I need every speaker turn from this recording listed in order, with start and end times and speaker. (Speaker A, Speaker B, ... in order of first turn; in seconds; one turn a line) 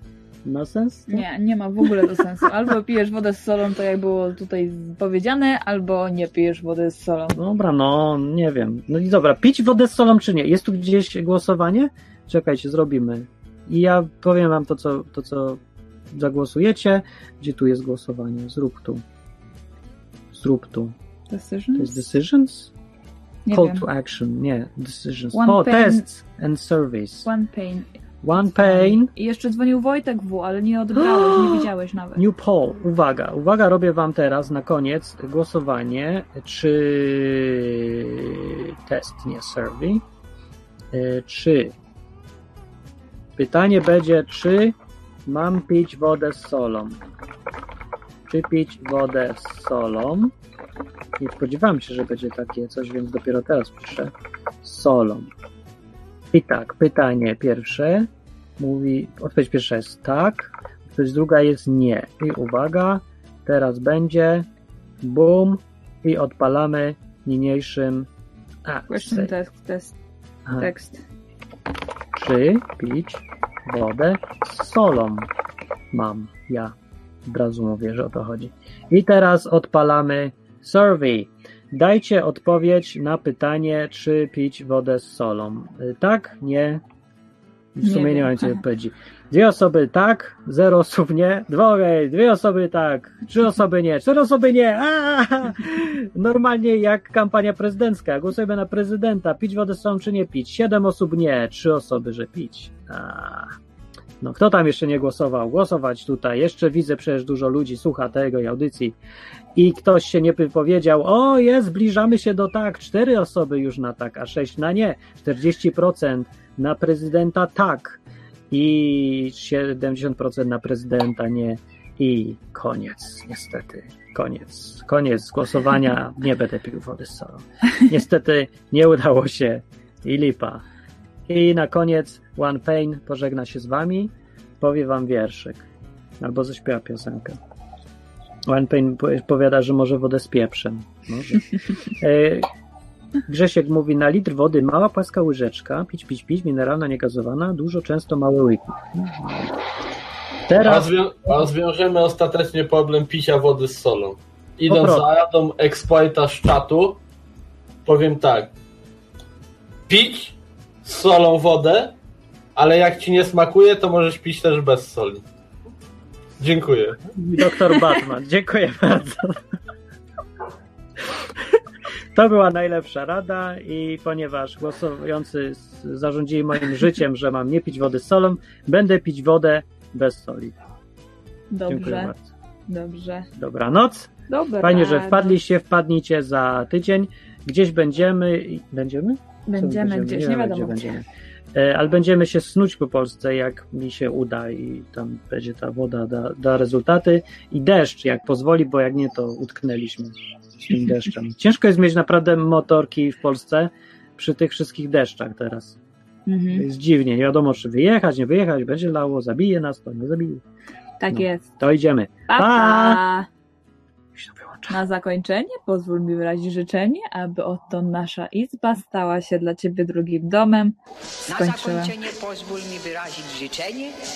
Speaker A: 0.4-1.3
Speaker B: 1.1-7.4
Speaker A: 7.3-15.6
Speaker A: 16.1-19.0
Speaker A: 20.3-20.9
Speaker B: 21.3-22.0
Speaker A: 21.8-22.7
Speaker B: 23.4-23.9
Speaker A: 23.5-27.3
Speaker B: 25.3-26.1
Speaker B: 27.2-27.9
Speaker A: 28.2-29.1
Speaker B: 28.4-32.2
Speaker A: 30.9-40.0
Speaker A: 40.9-41.7
Speaker A: 43.4-44.7
Speaker A: 45.3-47.0
Speaker A: 48.3-50.3
Speaker A: 51.2-54.1
Speaker A: 54.6-55.3
Speaker A: 56.3-58.1
Speaker A: 58.6-64.5
Speaker A: 65.0-68.1
Speaker A: 68.7-69.3
Speaker B: 68.9-69.9
Speaker A: 70.5-70.7
Speaker B: 70.6-71.0
Speaker A: 72.1-75.3
Speaker A: 75.9-76.7
Speaker A: 77.2-86.8
Speaker A: 87.8-103.5
Speaker B: 87.8-88.5
Speaker A: 104.2-109.0
Speaker A: 109.5-118.0
Speaker A: 118.5-130.6
Speaker A: 131.3-135.7
Speaker A: 136.2-137.3
Speaker A: 138.5-142.5
Speaker A: 143.3-149.5
Speaker A: 150.5-150.9
Speaker C: 150.6-157.0
Speaker A: 154.7-155.1
Speaker C: 157.8-158.5
Speaker C: 159.9-161.9
Speaker C: 162.5-165.2
Speaker C: 166.4-167.1
Speaker A: 167.2-169.4
Speaker A: 172.1-180.6
Speaker B: 181.5-182.1
Speaker A: 181.7-182.3
Speaker B: 182.7-183.3
Speaker A: 183.3-184.1
Speaker B: 184.3-185.4
Speaker A: 184.6-205.8
Speaker B: 189.4-190.9
Speaker B: 206.3-206.7
Speaker A: 206.5-210.4
Speaker B: 211.0-211.4
Speaker A: 211.1-213.0
Speaker B: 212.3-213.3
Speaker A: 214.1-214.8
Speaker B: 214.7-220.8
Speaker D: 221.3-223.9
Speaker B: 221.3-221.9